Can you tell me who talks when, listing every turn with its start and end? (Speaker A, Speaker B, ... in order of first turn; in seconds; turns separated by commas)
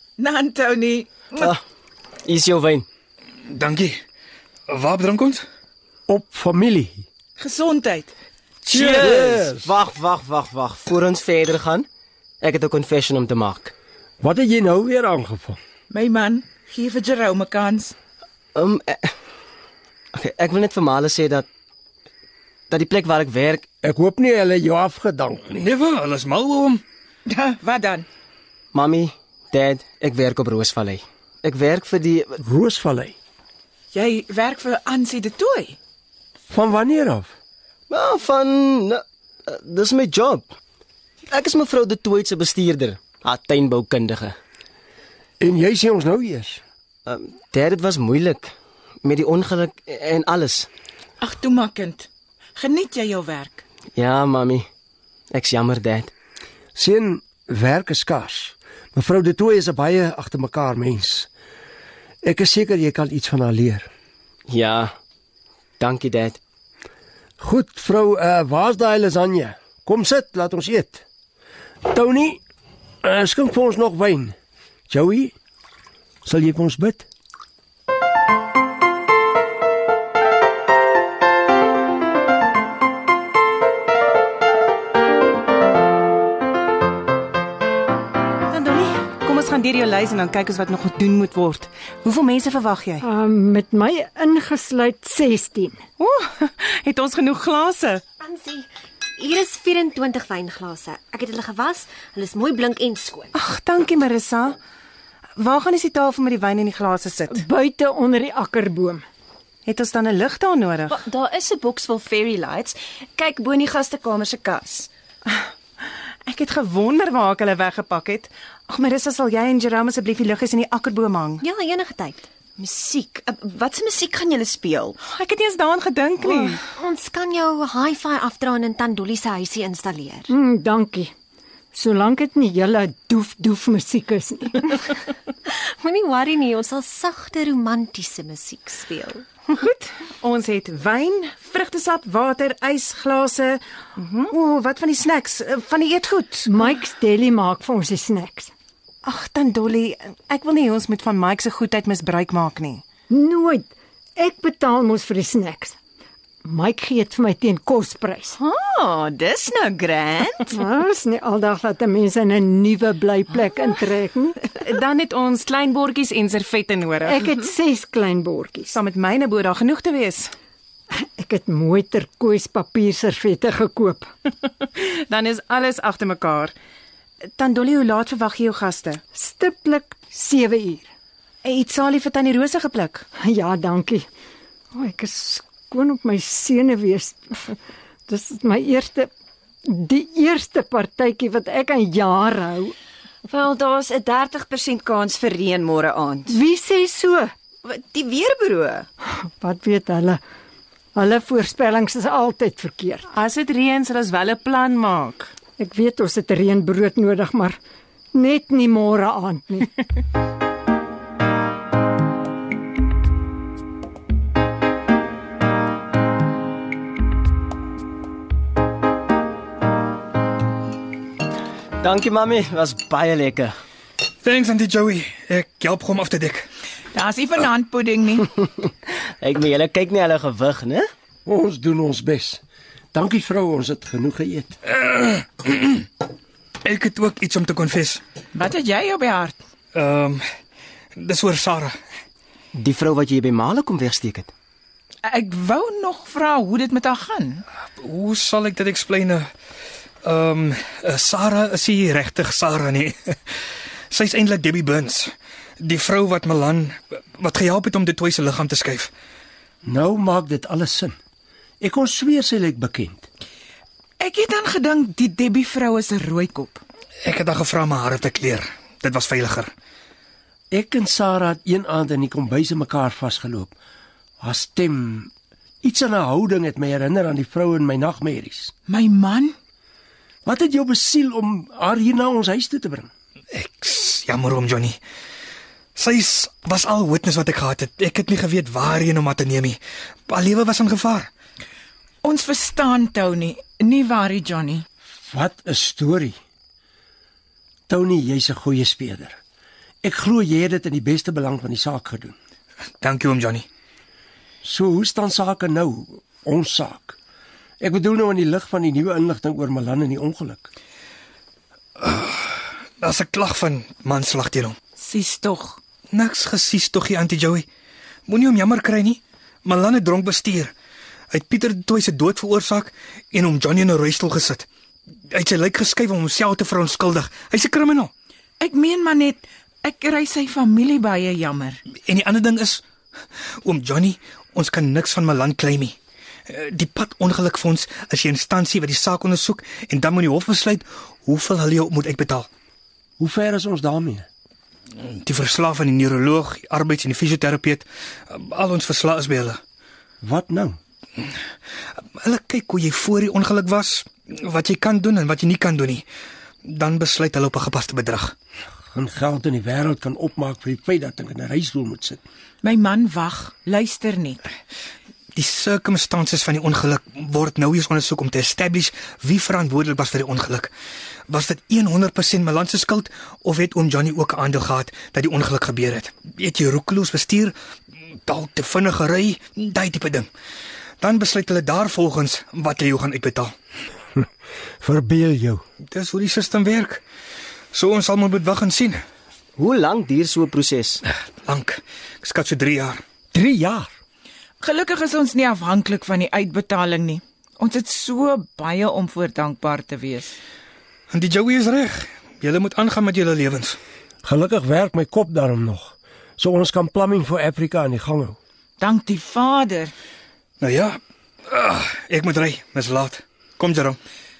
Speaker A: 0.2-1.5, Speaker B: 2.2-2.9, Speaker C: 3.5-4.0, Speaker C: 4.7-5.5, Speaker D: 6.1-7.0, Speaker A: 7.4-8.1, Speaker D: 8.7-9.7, Speaker B: 8.8-11.9, Speaker B: 12.4-13.7, Speaker D: 14.2-15.6, Speaker A: 15.9-17.9, Speaker B: 18.5-19.1, Speaker B: 20.1-21.5, Speaker B: 22.7-23.6, Speaker D: 23.8-25.6, Speaker C: 25.5-26.8, Speaker A: 27.3-28.1, Speaker B: 28.7-32.4, Speaker D: 32.4-33.1, Speaker A: 33.9-35.8, Speaker D: 36.5-37.3, Speaker B: 37.9-40.5, Speaker B: 41.3-44.4, Speaker D: 45.4-46.6, Speaker B: 47.0-50.7, Speaker A: 51.2-53.6, Speaker B: 54.0-54.7, Speaker B: 55.3-56.1, Speaker D: 56.7-61.3, Speaker D: 62.2-63.9, Speaker B: 64.5-64.9, Speaker B: 65.8-66.4, Speaker D: 67.4-71.0, Speaker D: 71.8-72.4, Speaker D: 73.0-74.3, Speaker D: 74.9-75.3, Speaker D: 76.2-77.0, Speaker E: 88.5-93.0, Speaker F: 93.0-95.8, Speaker E: 96.0-98.0, Speaker G: 98.2-103.3, Speaker E: 103.3-104.6, Speaker E: 105.4-107.4, Speaker F: 107.3-109.0, Speaker E: 109.7-111.1, Speaker H: 111.1-112.7, Speaker H: 113.2-114.8, Speaker E: 116.3-121.4, Speaker G: 121.4-122.2, Speaker H: 123.3-124.9, Speaker E: 125.0-126.6, Speaker G: 126.4-130.3, Speaker F: 130.3-131.1, Speaker F: 131.7-134.9, Speaker G: 135.5-139.2, Speaker E: 139.5-146.6, Speaker F: 146.5-148.5, Speaker E: 149.0-152.8, Speaker F: 153.1-155.8, Speaker F: 156.4-158.4, Speaker H: 158.8-160.4, Speaker F: 160.5-164.4, Speaker E: 164.5-167.3, Speaker F: 167.0-168.8, Speaker E: 168.7-170.3, Speaker F: 171.2-174.1, Speaker E: 174.8-176.5, Speaker E: 177.4-179.0, Speaker F: 179.2-180.8, Speaker E: 181.4-183.1, Speaker F: 183.2-184.1, Speaker F: 184.7-187.5, Speaker F: 188.1-189.1, Speaker F: 189.7-192.7, Speaker H: 193.3-196.3, Speaker E: 193.6-195.2, Speaker F: 196.3-197.3, Speaker E: 197.7-198.7, Speaker F: 199.4-200.2, Speaker F: 200.9-203.0, Speaker E: 203.1-205.3, Speaker F: 205.6-207.6, Speaker F: 208.1-209.7, Speaker B: 221.8-223.6, Speaker C: 224.2-226.5, Speaker A: 226.9-228.3, Speaker B: 229.2-230.9, Speaker D: 231.2-232.4, Speaker D: 232.9-234.6, Speaker C: 234.7-235.9, Speaker C: 236.6-238.0, Speaker A: 238.3-239.3, Speaker C: 239.7-240.2, Speaker C: 240.9-241.8, Speaker B: 242.5-244.3, Speaker A: 245.1-247.4, Speaker C: 247.8-249.3, Speaker C: 250.0-253.1, Speaker C: 253.9-258.9, Speaker D: 259.6-261.0, Speaker D: 261.6-263.1, Speaker A: 264.0-266.6, Speaker C: 267.0-269.5, Speaker D: 270.5-273.5, Speaker D: 274.2-275.1, Speaker D: 275.6-278.5, Speaker A: 278.7-279.3, Speaker D: 280.2-282.9, Speaker C: 283.3-284.8, Speaker C: 285.8-291.1, Speaker A: 292.0-294.6, Speaker D: 295.0-296.2, Speaker D: 297.7-299.2, Speaker D: 299.8-302.1, Speaker C: 302.8-303.4, Speaker D: 304.4-307.0, Speaker D: 307.6-310.5, Speaker C: 311.8-314.6, Speaker A: 314.8-315.6, Speaker C: 315.9-317.4, Speaker C: 318.1-320.5, Speaker C: 321.1-324.5, Speaker C: 325.1-327.9, Speaker A: 328.4-331.6, Speaker C: 331.9-332.6, Speaker C: 333.4-335.8, Speaker C: 336.3-342.3, Speaker D: 343.0-344.1, Speaker C: 344.8-349.4, Speaker D: 350.0-350.6, Speaker C: 352.0-355.8, Speaker C: 356.4-358.1, Speaker D: 358.7-362.0, Speaker A: 362.4-364.2, Speaker C: 365.1-370.5, Speaker C: 371.1-377.3, Speaker C: 378.1-380.1, Speaker C: 380.8-383.3, Speaker D: 384.6-385.4, Speaker C: 385.7-386.8, Speaker C: 387.5-388.8, Speaker B: 389.4-390.8, Speaker C: 391.2-392.8, Speaker D: 393.1-393.7, Speaker A: 394.4-400.1, Speaker C: 400.9-403.6, Speaker D: 404.0-408.2, Speaker A: 408.6-409.7, Speaker C: 410.4-410.8, Speaker C: 411.3-413.8